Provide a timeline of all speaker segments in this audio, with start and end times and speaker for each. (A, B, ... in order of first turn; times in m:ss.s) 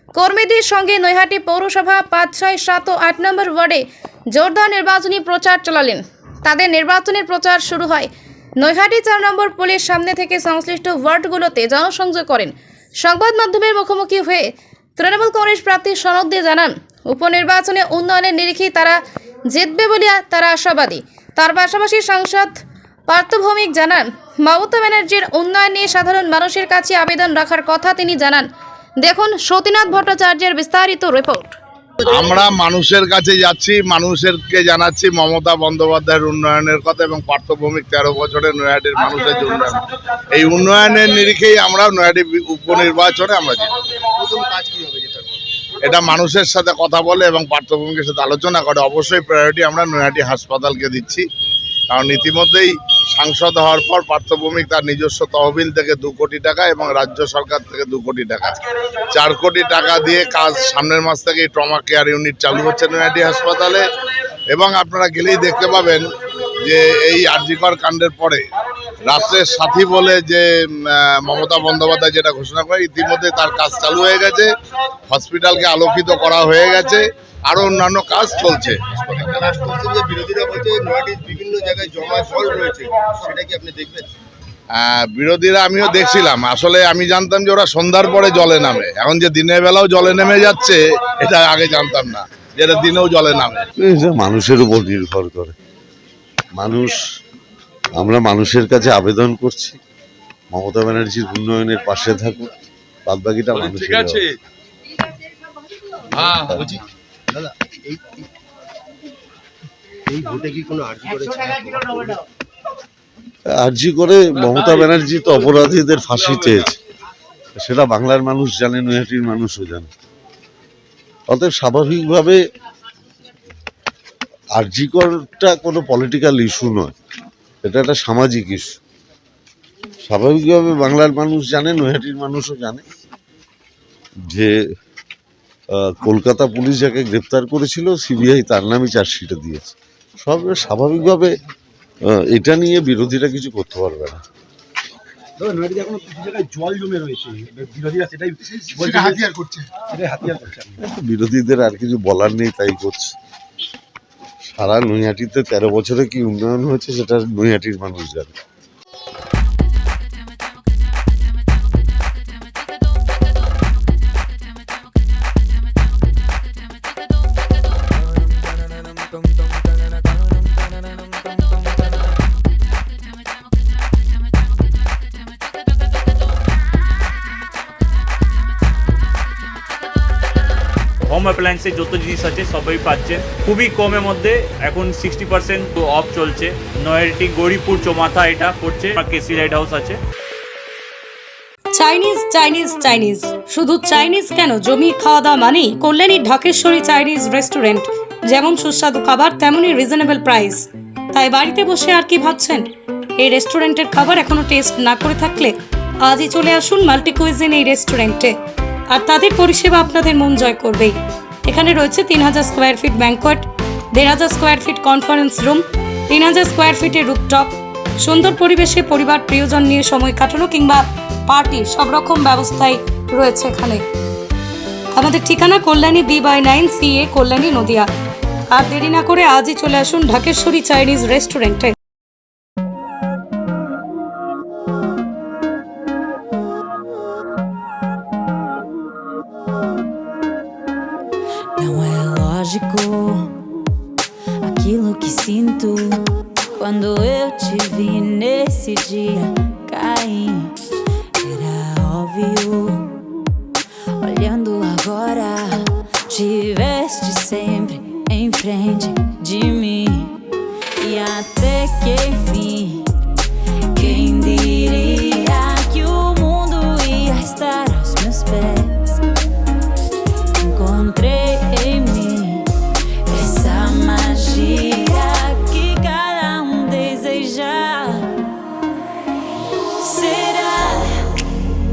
0:00.2-0:03.8 A
0:04.3-0:19.0 A
0:19.5-0:22.5 A
0:23.1-0:28.4 A
0:29.0-0:31.6 A
0:32.0-0:39.8 B
0:40.3-0:43.7 B
0:44.2-0:45.4 C
0:45.8-0:51.2 B
0:51.9-0:58.5 B
0:59.1-1:03.8 B
1:04.5-1:06.1 B
1:06.6-1:08.4 B
1:09.0-1:14.5 B
1:15.1-1:18.8 B
1:18.9-1:24.1 C
1:24.7-1:33.7 B
1:33.8-1:35.6 D
1:36.6-1:37.0 D
1:38.0-1:39.8 D
1:40.5-1:42.5 D
1:43.0-1:44.3 D
1:46.4-1:46.8 D
1:46.6-1:48.2 C
1:50.1-1:52.2 C
1:53.6-1:56.8 D
1:57.6-1:59.9 D
2:01.3-2:02.4 D
2:04.6-2:06.9 D
2:07.6-2:08.7 D
2:10.0-2:12.8 D
2:14.3-2:14.6 D
2:15.7-2:21.3 D
2:22.0-2:24.2 D
2:25.4-2:30.8 E
2:30.8-2:33.1 D
2:34.4-2:38.4 D
3:01.1-3:10.0 F
3:11.7-3:28.4 G
3:28.9-3:43.8 G
3:45.0-3:47.9 G
3:48.5-3:51.7 G
4:01.6-4:03.3 H
4:04.4-4:10.5 H
4:11.2-4:12.9 H
4:14.0-4:20.1 H
4:20.8-4:22.9 H
4:23.7-4:29.0 H
4:30.4-4:32.5 H
4:33.1-4:38.1 H
4:39.8-4:41.1 H